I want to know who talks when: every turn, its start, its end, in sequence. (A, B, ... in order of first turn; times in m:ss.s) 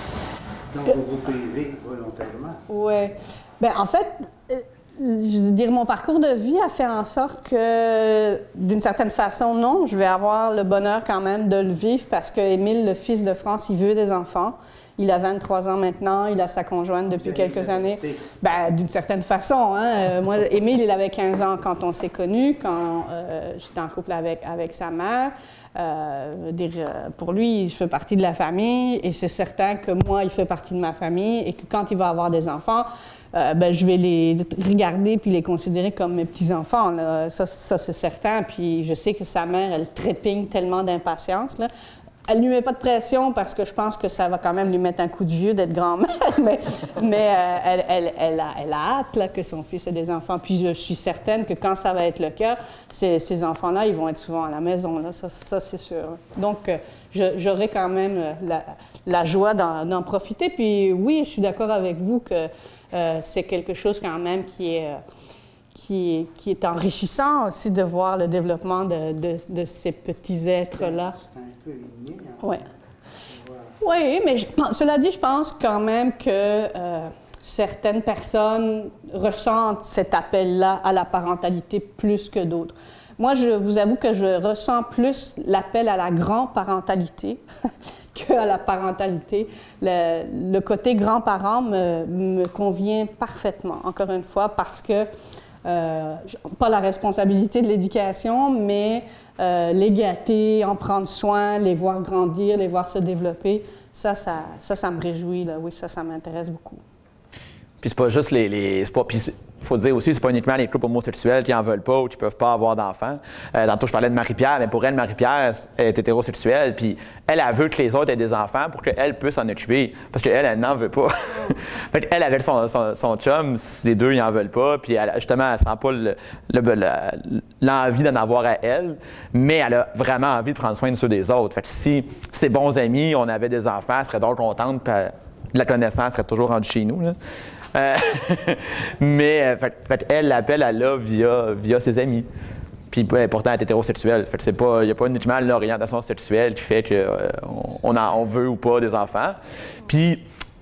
0:00.7-0:02.6 A
0:02.7-0:41.7 B
0:17.1-0:18.3 A
0:42.3-1:05.0 B
1:05.7-1:11.1 B
1:10.8-1:12.7 A
1:13.3-1:13.8 A
1:13.8-1:27.4 B
1:28.1-1:35.1 B
1:35.6-1:46.8 B
1:47.8-2:17.2 C
2:17.7-2:22.3 C
2:22.9-2:30.2 C